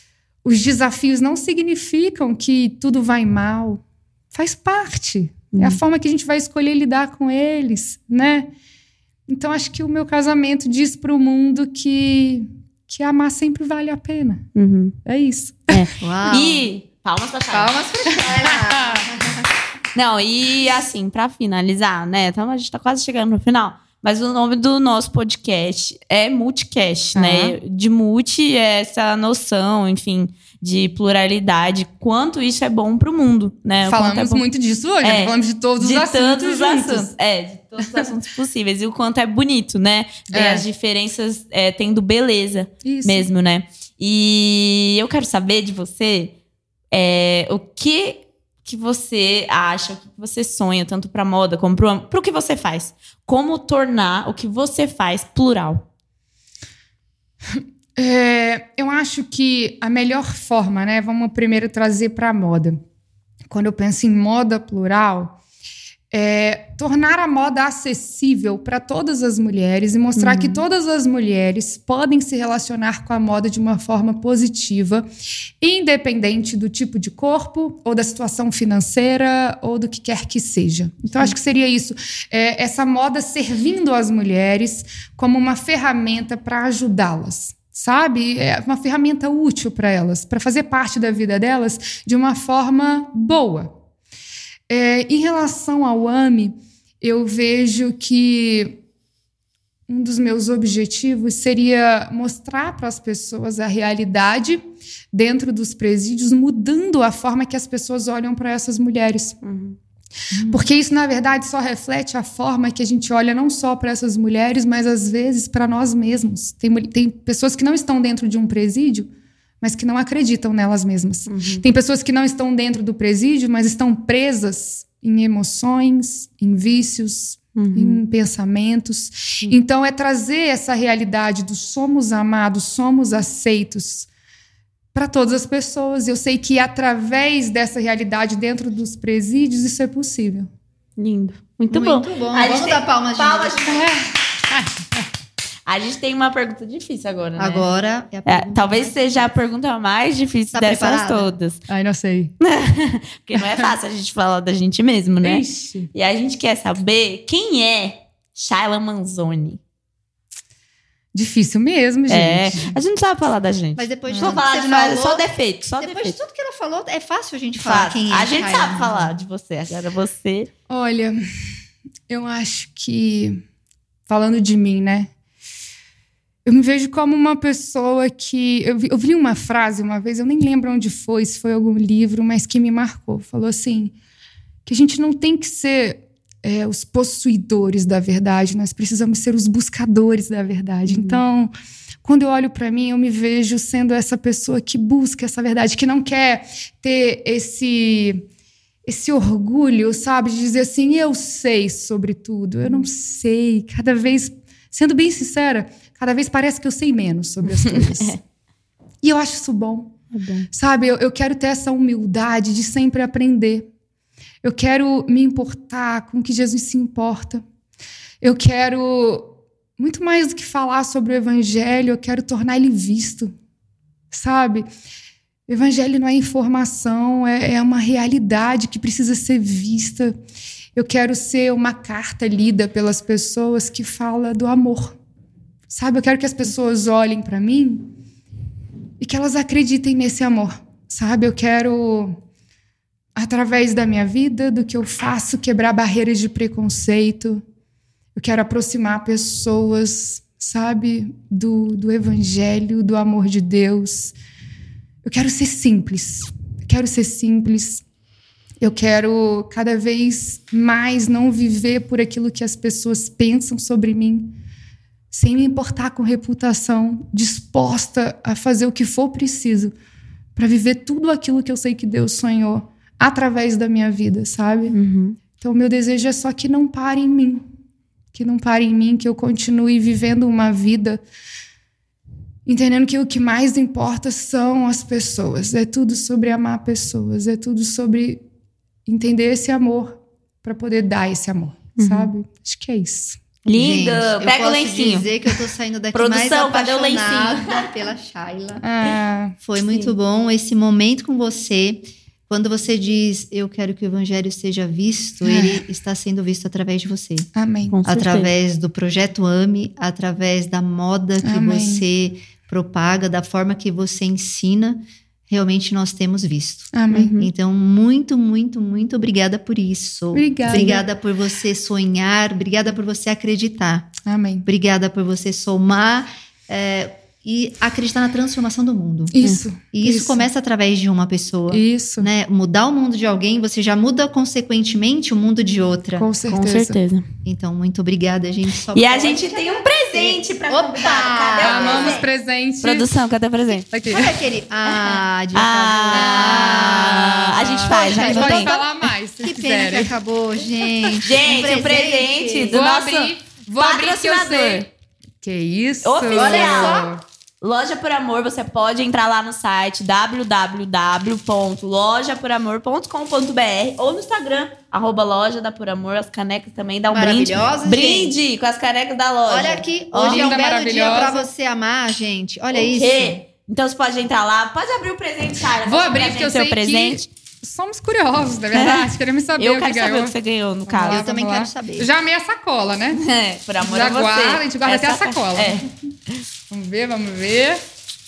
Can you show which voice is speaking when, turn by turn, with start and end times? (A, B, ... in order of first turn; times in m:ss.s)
0:00.4-0:08.5 A
0:05.5-0:05.8 B
0:09.3-0:14.5 A
0:14.5-0:15.0 B
0:15.0-0:15.8 A
0:15.7-0:17.7 B
0:16.0-0:16.7 C
0:17.5-0:19.4 C
0:18.1-0:19.0 A
0:19.9-0:34.4 B
0:27.1-0:27.6 A
0:33.8-0:37.1 A
0:35.0-0:46.3 B
0:40.3-0:40.6 A
0:42.8-0:43.3 A
0:46.9-0:55.8 B
0:57.4-1:02.8 A
1:03.5-1:05.4 A
1:06.1-1:15.1 A
1:10.2-1:10.6 B
1:15.6-1:33.7 A
1:34.7-1:38.8 A
1:39.9-1:49.4 A
1:49.4-1:49.8 B
1:50.3-1:50.6 C
1:50.5-1:59.1 A
1:59.6-2:14.1 A
2:01.3-2:01.6 B
2:07.5-2:08.0 B
2:14.9-2:20.5 A
2:21.0-2:23.9 B
2:21.7-2:23.8 C
2:23.8-2:24.7 A
2:25.7-2:27.7 B
2:27.4-2:29.3 C
2:28.2-2:31.6 B
2:30.5-2:31.3 C
2:31.7-2:32.3 A
2:32.4-2:39.6 B
2:33.4-2:33.7 A
2:35.2-2:35.9 A
2:41.1-2:42.8 A
2:42.1-2:46.2 B
2:43.8-2:49.1 C
2:44.1-2:44.4 A
2:47.6-2:50.5 B
2:50.7-2:51.2 A
2:52.1-2:53.4 A
2:54.1-2:55.1 A
2:56.4-3:03.9 A
3:04.6-3:11.5 A
3:10.9-3:11.2 B
3:12.0-3:18.2 A
3:18.8-3:28.2 A
3:27.5-3:28.2 B
3:29.0-3:30.0 A
3:30.1-3:30.5 B
3:30.5-3:33.7 A
3:34.4-3:37.4 A
3:38.2-3:43.3 A
3:44.1-3:44.6 A
3:45.5-3:50.1 A
3:50.7-3:55.0 A
3:55.7-3:57.9 A
3:59.0-4:02.2 A
4:03.1-4:07.4 A
4:08.1-4:14.1 A
4:15.0-4:17.8 A
4:18.6-4:24.3 A
4:25.1-4:29.7 A
4:30.4-4:34.8 A
4:34.7-4:35.2 B
4:35.3-4:37.4 A
4:38.1-4:41.0 A
4:42.4-4:48.2 A
4:48.8-4:53.2 A
4:51.8-4:52.1 B
4:53.4-4:55.1 B
4:53.5-4:58.6 C
4:55.9-4:57.7 B
4:58.6-4:59.3 A
4:59.4-5:07.3 C
5:05.2-5:05.6 A
5:07.3-5:07.8 A
5:07.7-5:08.3 B
5:07.8-5:29.1 C
5:11.2-5:11.8 A
5:16.7-5:17.1 A
5:16.9-5:17.3 B
5:20.1-5:20.8 A
5:20.5-5:20.8 B
5:24.0-5:24.4 A
5:29.1-5:30.3 A
5:29.7-5:36.1 C
5:31.5-5:32.1 A
5:36.0-5:36.8 A
5:36.3-5:37.0 B
5:37.2-5:42.0 C
5:38.7-5:42.0 B
5:41.4-5:42.8 A
5:42.6-5:43.7 B
5:43.7-5:44.1 A
5:43.8-5:48.6 C
5:44.7-5:48.5 B
5:45.9-5:49.9 A
5:49.2-5:52.6 C
5:51.0-5:54.7 B
5:52.5-5:54.7 A
5:55.2-5:57.0 A
5:55.8-5:56.8 B
5:56.1-5:56.9 C
5:57.4-6:10.4 B
6:06.9-6:08.2 C
6:09.3-6:13.2 C
6:10.1-6:11.2 A
6:12.5-6:17.1 B
6:15.6-6:23.0 A
6:18.5-6:21.0 B
6:20.9-6:21.9 C
6:22.9-6:25.6 B
6:23.6-6:25.6 A
6:26.5-6:27.6 A